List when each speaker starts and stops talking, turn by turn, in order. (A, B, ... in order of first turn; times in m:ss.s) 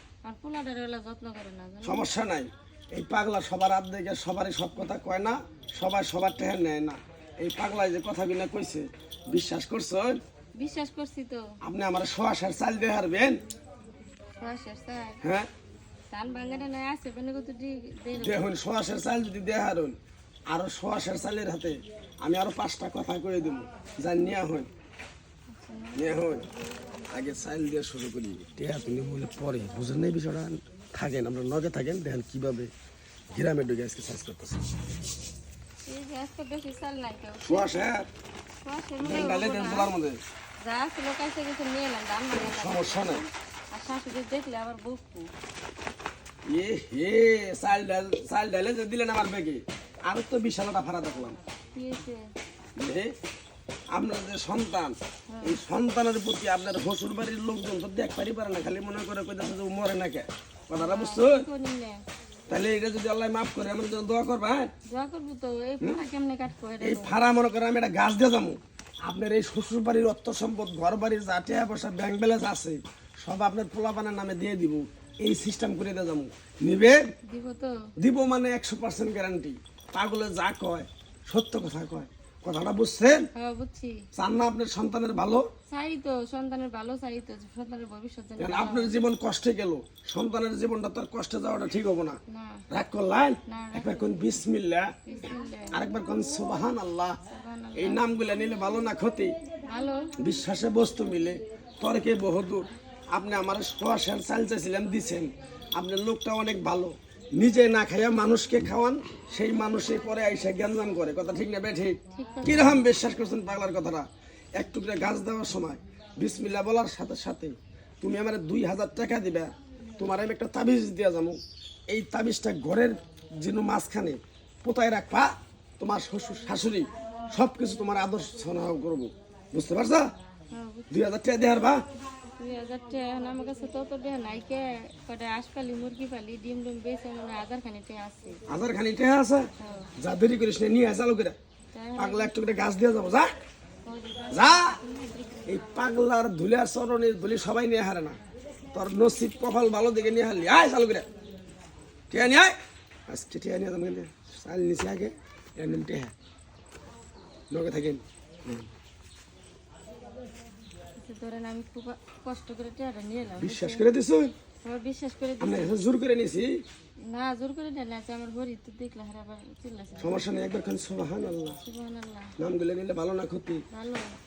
0:00.2-0:02.1 A
0:01.8-0:10.2 B
0:10.6-0:11.5 A
0:11.6-0:13.4 B
0:14.4-0:15.2 A
0:15.2-0:15.5 B
0:16.1-0:18.4 A
0:18.2-0:20.0 B
0:20.5-0:24.7 B
0:25.5-0:26.4 A
0:26.0-0:26.4 B
0:27.1-0:32.7 B
0:33.3-0:34.7 B
0:35.9-0:37.9 A
0:37.4-0:38.1 B
0:38.6-0:39.9 A
0:39.0-0:40.2 B
0:40.6-0:45.3 A
0:42.4-0:43.2 B
0:46.5-0:51.4 B
0:51.8-0:52.2 A
0:52.8-0:53.1 B
0:53.9-1:01.5 B
0:55.3-0:55.6 A
1:00.8-1:02.0 A
1:02.5-1:04.7 B
1:04.9-1:07.2 A
1:06.8-1:17.0 B
1:17.3-1:17.7 A
1:18.0-1:23.3 B
1:23.4-1:24.0 A
1:24.2-1:25.5 B
1:25.7-1:28.9 A
1:28.4-1:32.2 B
1:32.3-1:32.6 A
1:32.7-1:34.9 B
1:33.5-1:34.2 A
1:35.1-1:35.8 A
1:35.7-1:37.2 B
1:37.3-1:38.0 A
1:37.8-1:39.4 B
1:39.7-1:40.1 A
1:40.2-2:01.4 B
1:52.1-1:52.8 A
2:01.9-2:10.1 B
2:10.5-2:10.9 A
2:10.9-2:11.8 B
2:12.4-2:18.4 A
2:18.5-2:19.5 B
2:19.6-2:19.9 A
2:20.0-2:21.4 B
2:21.7-2:22.3 A
2:22.0-2:23.3 B
2:23.8-2:25.7 A
2:24.3-2:24.8 B
2:25.5-2:28.2 B
2:28.7-2:31.1 B
2:32.1-2:32.6 B
2:33.1-2:36.1 B
2:37.5-2:38.7 B
2:41.0-2:43.8 A
2:43.4-2:44.3 B
2:44.6-2:45.8 A
2:45.4-2:46.6 B
2:47.1-2:50.2 A
2:50.0-2:51.6 B
2:51.6-2:52.3 A
2:52.4-2:53.6 B
2:53.7-2:54.1 A